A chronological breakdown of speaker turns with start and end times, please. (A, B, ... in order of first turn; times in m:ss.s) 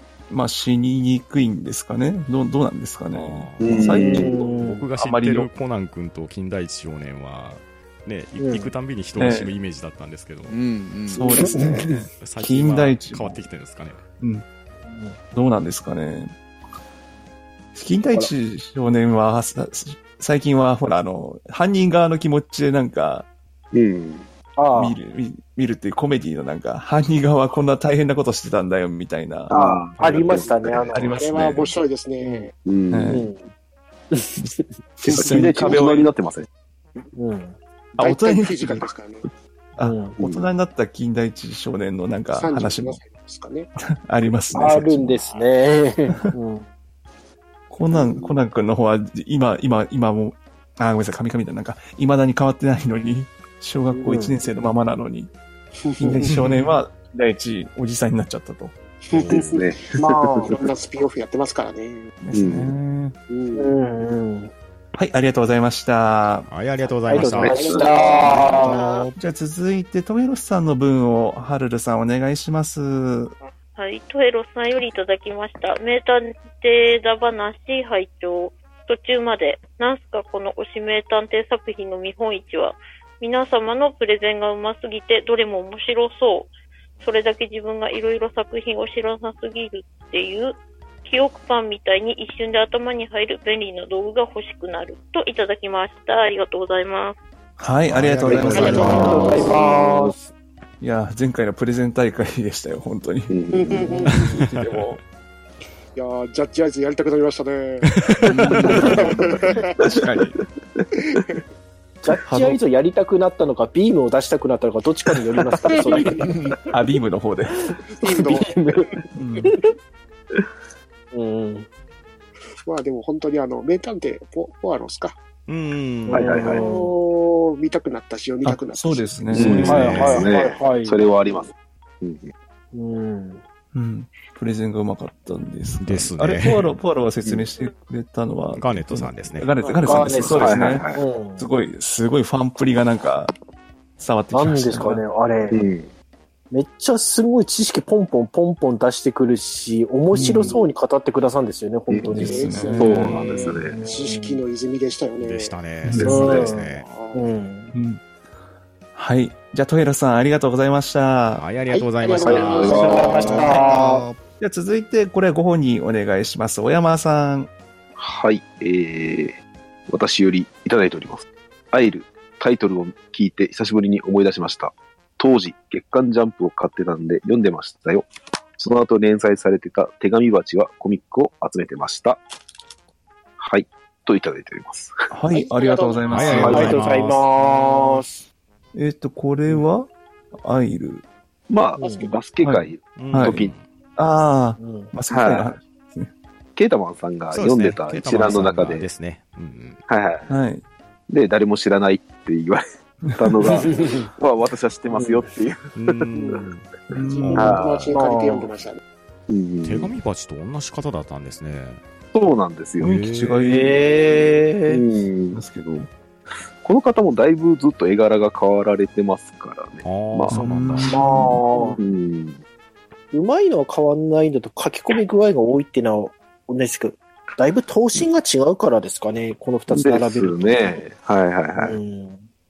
0:00.3-0:04.4 A
0:03.1-0:10.6 B
0:03.6-0:04.5 C
0:04.1-0:04.9 D
0:05.0-0:05.5 A
0:08.4-0:08.7 D
0:09.2-0:09.5 A
0:10.5-0:11.7 E
0:11.1-0:13.4 A
0:11.4-0:12.0 D
0:12.2-0:14.0 B
0:14.9-0:15.2 D
0:15.3-0:16.3 A
0:17.7-0:23.3 A
0:23.7-0:24.3 C
0:24.6-0:25.0 D
0:24.7-0:30.4 A
0:29.5-0:31.0 C
0:29.5-0:31.3 D
0:30.9-0:31.7 A
0:31.2-0:32.5 F
0:32.2-0:32.5 D
0:32.6-0:33.2 C
0:32.9-0:33.3 A
0:33.1-0:33.5 D
0:34.1-0:34.6 D
0:35.0-0:36.5 C
0:35.1-0:36.1 A
0:37.2-0:37.6 D
0:38.0-0:38.9 A
0:38.0-0:39.3 F
0:39.8-0:43.0 A
0:39.8-0:40.2 D
0:40.2-0:40.5 C
0:42.3-0:43.7 F
0:43.8-0:45.3 A
0:44.5-0:46.7 D
0:46.1-0:46.4 A
0:47.7-0:55.3 A
0:47.9-0:48.4 C
0:53.9-0:54.4 D
0:55.8-0:56.4 F
0:56.0-0:58.8 A
0:56.2-0:56.7 B
0:59.1-0:59.7 F
0:59.1-0:59.4 B
0:59.3-1:00.7 C
1:00.0-1:00.6 D
1:00.4-1:02.1 F
1:02.2-1:03.2 A
1:02.3-1:02.7 C
1:03.3-1:03.8 F
1:03.5-1:04.5 D
1:05.0-1:06.5 A
1:06.5-1:07.6 B
1:07.1-1:08.8 D
1:07.2-1:07.6 A
1:07.3-1:08.5 C
1:07.5-1:09.1 F
1:08.6-1:13.4 A
1:13.8-1:37.2 G
1:37.6-1:39.6 A
1:37.9-1:39.6 B
1:38.2-1:40.3 D
1:38.7-1:40.1 C
1:40.8-1:43.3 A
1:43.3-1:44.1 C
1:43.5-1:44.3 F
1:43.8-1:44.3 D
1:44.2-1:44.9 B
1:44.3-1:45.0 A
1:46.0-1:47.9 F
1:47.9-1:48.7 B
1:48.3-1:49.2 E
1:48.6-1:49.7 F
1:48.8-1:49.0 D
1:49.8-1:50.2 C
1:50.0-1:50.4 B
1:51.1-1:51.4 F
1:52.0-1:56.3 D
1:52.3-1:52.6 A
1:55.9-1:56.3 F
1:56.7-1:57.6 A
1:57.9-1:58.9 F
1:58.0-1:58.9 D
1:59.2-1:59.6 A
2:01.1-2:01.7 D
2:02.6-2:05.2 F
2:05.5-2:06.3 B
2:06.1-2:06.7 C
2:06.1-2:06.9 D
2:06.6-2:09.4 F
2:08.4-2:10.2 A
2:09.3-2:12.3 C
2:09.4-2:10.3 B
2:09.6-2:11.0 D
2:12.7-2:13.4 D
2:13.7-2:20.8 A
2:15.8-2:16.8 B
2:18.6-2:19.5 B
2:19.6-2:20.1 F
2:19.8-2:21.5 D
2:20.3-2:21.0 C
2:21.4-2:23.3 A
2:24.0-2:25.0 A
2:24.3-2:25.6 D
2:25.5-2:25.9 C
2:26.5-2:34.4 D
2:30.1-2:30.5 A
2:30.2-2:30.5 C
2:31.9-2:33.8 C
2:32.1-2:33.2 A
2:32.3-2:35.6 F
2:35.2-2:36.9 B
2:35.8-2:36.3 A
2:36.0-2:36.6 C
2:36.0-2:37.7 D
2:36.2-2:37.3 F
2:37.7-2:38.0 A
2:39.0-2:41.5 A
2:41.3-2:43.1 B
2:41.7-2:43.6 F
2:42.2-2:44.0 D
2:42.3-2:43.3 C
2:42.8-2:44.2 E
2:44.4-2:47.5 A
2:48.0-3:02.2 C
3:03.4-3:04.9 C
3:05.1-3:06.8 A
3:05.3-3:06.6 F
3:06.1-3:08.0 B
3:06.3-3:08.2 D
3:06.3-3:06.7 C
3:08.7-3:11.1 A
3:11.5-3:13.5 C
3:11.8-3:12.2 F
3:11.8-3:12.1 D
3:12.4-3:13.5 A
3:13.0-3:13.6 B
3:14.0-3:16.1 A
3:14.6-3:14.9 D
3:15.1-3:15.6 C
3:16.6-3:18.9 C
3:17.3-3:19.8 B
3:19.9-3:20.4 C
3:20.3-3:20.6 A
3:21.1-3:22.6 C
3:23.0-3:23.3 A
3:23.2-3:26.4 C
3:23.5-3:24.1 D
3:24.9-3:25.2 D
3:25.8-3:27.7 B
3:26.9-3:27.5 A
3:27.2-3:28.8 F
3:27.4-3:27.9 C
3:27.9-3:28.5 D
3:29.3-3:30.0 C
3:29.6-3:31.8 B
3:32.1-3:33.0 C
3:32.8-3:33.4 B
3:32.8-3:33.9 A
3:33.4-3:34.8 D
3:34.7-3:35.4 C
3:35.3-3:35.9 A
3:36.6-3:40.4 C
3:39.8-3:40.9 B
3:40.3-3:41.4 A
3:40.9-3:41.8 D
3:41.6-3:42.4 C
3:43.1-3:50.7 D
3:49.7-3:51.8 C
3:51.6-3:52.3 D